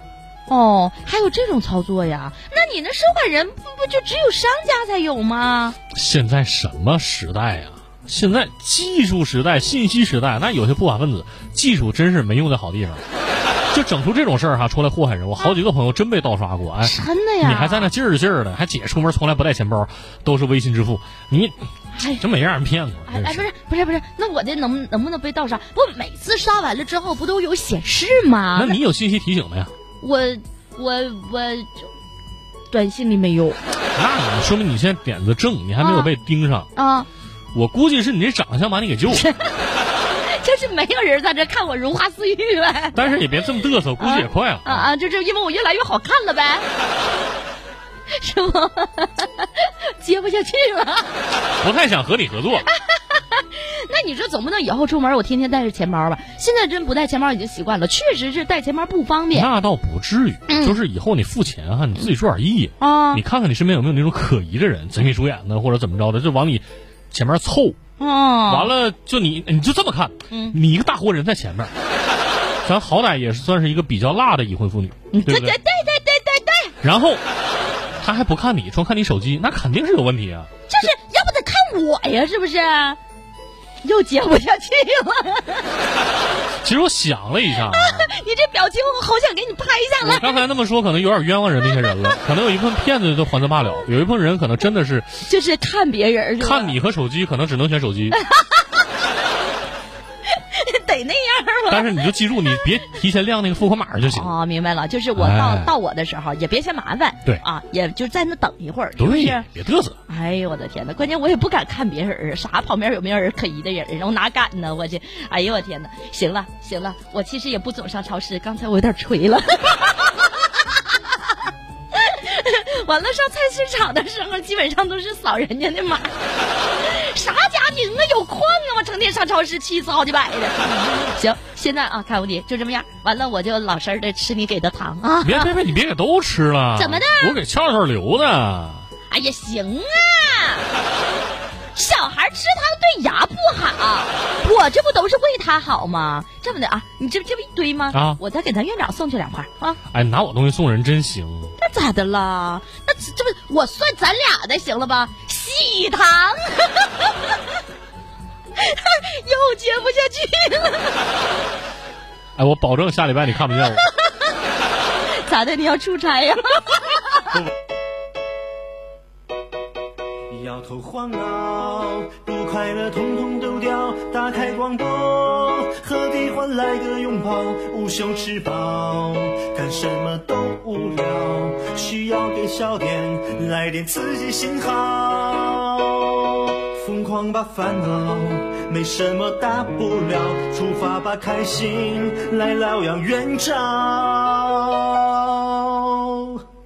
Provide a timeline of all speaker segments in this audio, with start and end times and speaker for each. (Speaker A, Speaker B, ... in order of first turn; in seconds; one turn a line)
Speaker A: 0.5-5.8
Speaker B: 5.9-13.0
Speaker B: 13.7-23.5
Speaker A: 16.8-17.9
Speaker A: 21.9-22.2
Speaker A: 23.1-28.8
Speaker B: 28.6-29.7
Speaker A: 30.0-31.9
Speaker A: 32.7-33.6
Speaker B: 34.0-36.7
Speaker A: 35.8-36.1
Speaker A: 36.8-37.1
Speaker B: 37.5-39.3
Speaker A: 39.1-39.7
Speaker A: 40.2-43.2
Speaker B: 42.9-44.9
Speaker A: 44.0-46.6
Speaker A: 48.1-51.1
Speaker B: 51.6-52.7
Speaker A: 52.6-59.5
Speaker B: 59.3-67.8
Speaker A: 60.5-60.8
Speaker A: 62.8-63.2
Speaker A: 68.0-68.7
Speaker B: 68.5-71.7
Speaker A: 70.3-70.6
Speaker B: 72.6-75.6
Speaker A: 75.1-76.7
Speaker B: 76.8-77.2
Speaker B: 78.0-80.9
Speaker A: 80.7-83.0
Speaker A: 83.8-85.8
Speaker B: 86.6-88.1
Speaker A: 87.5-90.4
Speaker B: 90.0-95.2
Speaker A: 91.7-92.2
Speaker A: 95.2-96.8
Speaker B: 96.4-98.2
Speaker A: 98.1-99.0
Speaker A: 100.3-102.1
Speaker B: 101.7-104.3
Speaker A: 104.0-109.5
Speaker B: 105.2-105.7
Speaker B: 109.0-110.0
Speaker A: 110.1-135.6
Speaker B: 135.2-138.9
Speaker A: 136.8-137.4
Speaker A: 139.1-140.7
Speaker A: 141.7-149.8
Speaker B: 147.9-148.2
Speaker B: 149.9-151.6
Speaker A: 151.6-157.4
Speaker A: 158.6-161.0
Speaker B: 162.4-163.8
Speaker A: 165.2-167.3
Speaker C: 170.3-196.4